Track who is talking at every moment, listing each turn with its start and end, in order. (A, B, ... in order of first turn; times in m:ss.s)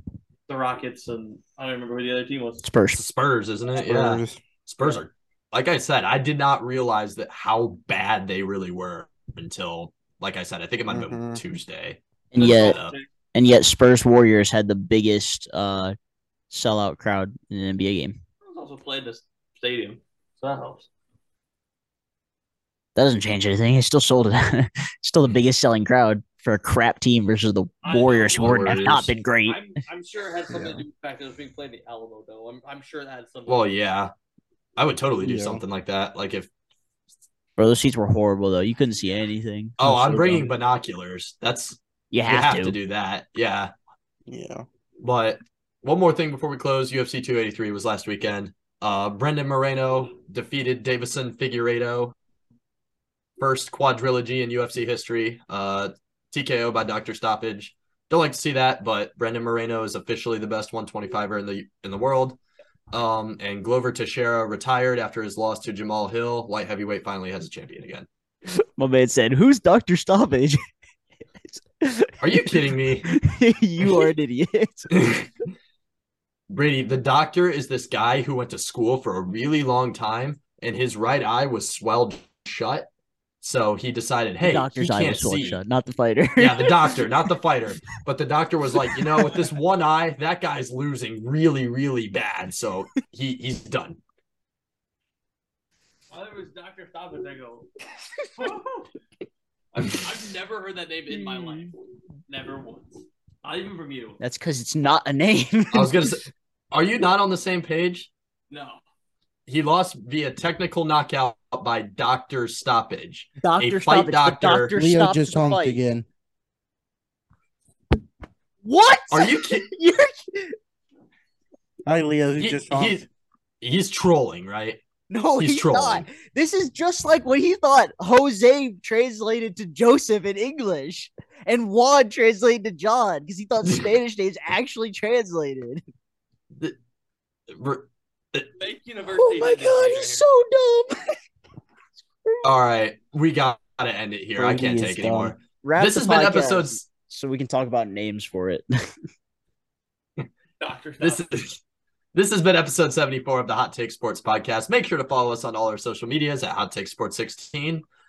0:00.5-0:02.7 A
0:02.6-0:03.0 B
0:03.0-0:13.0 C
0:03.7-0:04.4 D
0:10.9-0:11.4 D
0:12.3-0:12.8 B
0:12.4-0:13.1 A
0:13.3-0:16.0 B
0:16.5-0:18.2 B
0:18.4-0:20.9 A
0:23.0-0:29.6 B
0:27.8-0:33.7 A
0:28.3-0:29.2 C
0:30.5-0:30.8 D
0:33.5-0:34.1 C
0:34.8-0:36.5 C
0:35.2-0:35.6 D
0:37.6-0:40.4 B
0:39.8-0:43.7 C
0:39.8-0:40.3 D
0:42.1-0:42.8 B
0:44.3-0:44.6 D
0:45.0-0:52.2 C
0:53.4-1:02.4 C
1:02.9-1:08.1 C
1:08.5-1:10.6 B
1:11.4-1:15.0 B
1:12.2-1:13.1 C
1:14.9-1:15.3 C
1:16.5-1:22.9 C
1:23.4-1:25.6 C
1:24.4-1:27.3 B
1:26.4-1:34.0 C
1:28.7-1:29.4 B
1:36.1-1:37.7 A
1:38.4-1:38.9 A
1:39.7-1:44.2 A
1:41.2-1:41.7 B
1:44.2-1:46.2 B
1:45.7-1:48.1 C
1:48.5-1:48.8 A
1:49.5-1:54.7 C
1:53.4-1:55.8 B
1:54.7-1:56.1 D
1:58.6-2:00.6 B
1:59.1-1:59.7 C
2:01.9-2:03.1 D
2:02.4-2:03.0 C
2:03.6-2:04.8 C
2:05.1-2:15.8 B
2:05.4-2:06.1 C
2:17.5-2:18.5 C
2:18.6-2:20.2 A
2:19.1-2:21.2 B
2:22.0-2:22.5 B
2:22.4-2:26.8 C
2:24.4-2:25.4 D
2:25.6-2:28.9 B
2:30.6-2:31.3 A
2:31.0-2:31.6 C
2:32.1-2:37.8 C